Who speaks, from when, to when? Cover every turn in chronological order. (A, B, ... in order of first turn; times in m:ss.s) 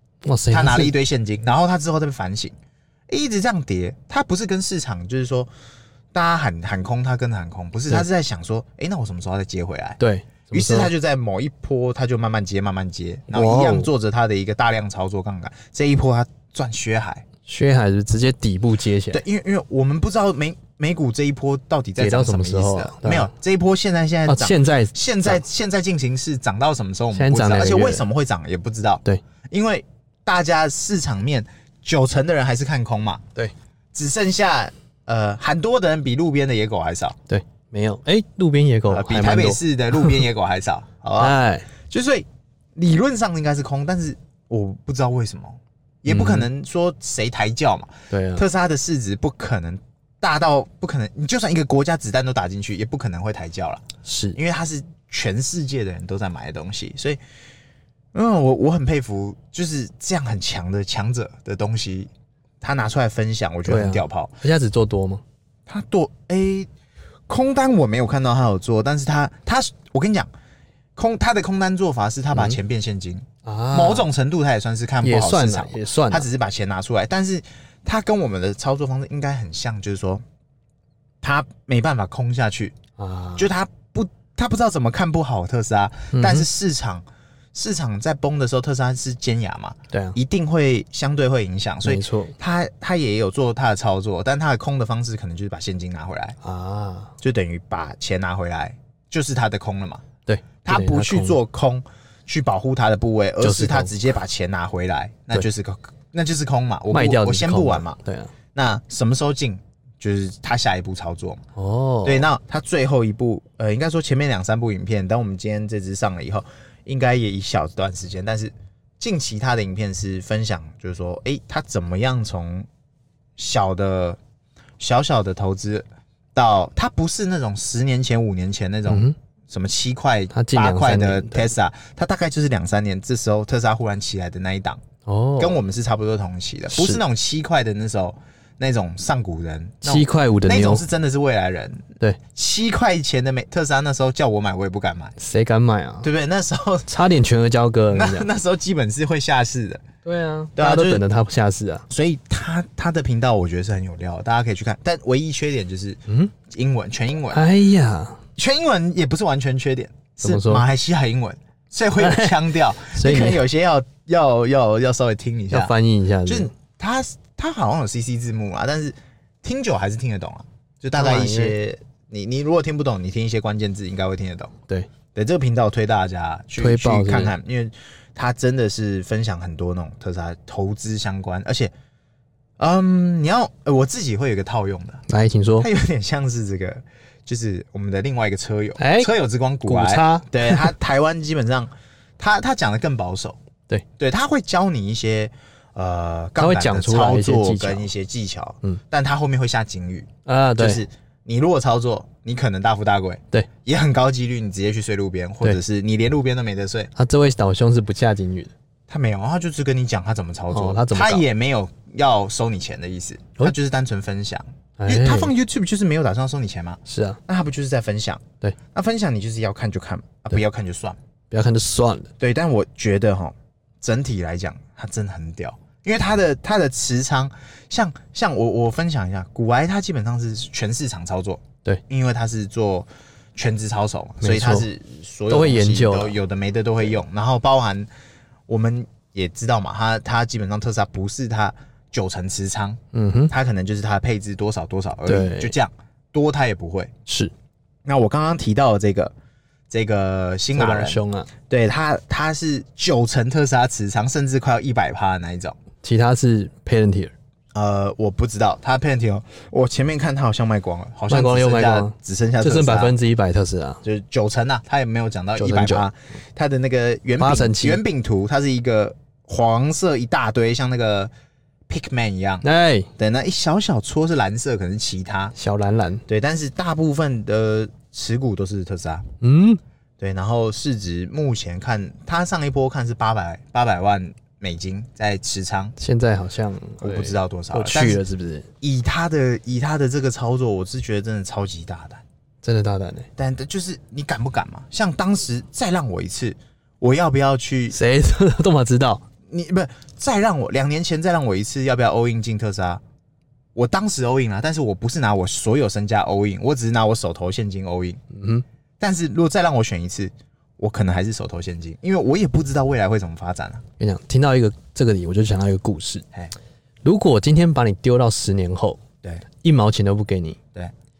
0:00.2-0:00.9 A
0:00.5-0:02.6 B
0:03.1-0:05.5 B
0:06.1-0:10.0 B
0:10.0-0:10.9 A
0:10.5-0:17.2 B
0:13.3-0:13.9 A
0:17.4-0:19.2 A
0:19.1-0:33.2 B
0:22.0-0:23.3 A
0:24.3-0:25.4 A
0:27.1-0:28.0 A
0:33.9-0:37.2 B
0:37.3-0:40.2 A
0:38.9-0:57.2 B
0:41.2-0:41.7 A
0:46.1-0:46.5 A
0:48.1-0:48.4 A
0:54.0-0:54.4 A
0:58.1-1:02.1 B
1:02.6-1:04.4 B
1:03.7-1:05.2 A
1:05.7-1:06.7 B
1:07.3-1:10.3 B
1:11.0-1:20.2 B
1:13.4-1:14.1 A
1:15.0-1:16.3 A
1:21.2-1:22.8 B
1:23.0-1:23.5 A
1:23.4-1:36.4 B
1:26.1-1:26.5 A
1:29.9-1:30.2 A
1:31.8-1:32.4 A
1:36.4-1:37.1 A
1:37.2-1:40.0 B
1:40.2-1:41.4 A
1:40.6-1:48.0 B
1:43.4-1:44.0 A
1:46.9-1:48.3 A
1:48.6-1:51.4 B
1:51.6-1:52.3 A
1:52.0-2:02.7 B
2:03.4-2:04.2 B
2:04.8-2:14.8 B
2:08.9-2:09.1 A
2:10.3-2:11.5 A
2:15.0-2:15.6 A
2:15.4-2:25.1 B
2:16.7-2:17.0 A
2:19.8-2:20.8 A
2:25.2-2:26.1 A
2:26.0-2:26.9 B
2:26.9-2:28.3 A
2:27.9-2:29.8 B
2:30.0-2:31.9 A
2:30.6-2:31.0 B
2:31.9-2:37.4 B
2:37.3-2:38.2 A
2:38.4-2:45.7 B
2:40.2-2:40.6 A
2:42.0-2:43.4 A
2:45.5-2:46.5 A
2:46.2-2:54.5 B
2:50.9-2:51.6 A
2:55.1-3:01.7 B
2:56.6-2:57.3 A
3:02.6-3:05.0 B
3:05.1-3:05.7 A
3:05.6-3:13.4 B
3:08.8-3:09.1 A
3:09.6-3:10.7 A
3:14.0-3:26.9 B
3:16.4-3:17.9 A
3:20.2-3:20.8 A
3:27.0-3:28.5 A
3:28.9-3:41.0 B
3:30.5-3:31.2 A
3:34.8-3:35.3 A
3:36.9-3:37.2 A
3:41.3-3:42.1 A
3:42.2-3:57.9 B
3:54.2-3:54.7 A
3:55.3-3:56.2 A
3:58.5-4:06.9 B
4:02.9-4:03.3 A
4:05.1-4:05.6 A
4:07.1-4:07.3 A
4:07.8-4:09.1 B
4:09.7-4:15.6 B
4:10.5-4:11.3 A
4:15.8-4:17.1 A
4:17.5-4:22.9 B
4:21.1-4:23.8 A
4:23.8-4:31.1 B
4:25.4-4:25.9 A
4:27.2-4:27.8 A
4:31.7-4:32.4 B
4:32.4-4:32.9 A
4:33.0-4:35.3 B
4:35.4-4:36.0 A
4:36.1-4:39.1 B
4:39.2-4:39.6 A
4:40.0-4:45.8 B
4:45.8-4:48.5 A
4:46.8-4:48.0 B
4:48.6-4:52.0 B
4:52.4-4:53.1 A
4:53.2-4:57.8 B
4:57.7-4:59.0 A
4:59.3-5:02.8 B
5:03.6-5:08.0 B
5:08.1-5:08.4 A
5:08.8-5:13.6 B
5:13.8-5:16.0 A
5:16.8-5:18.8 A
5:19.4-5:20.4 A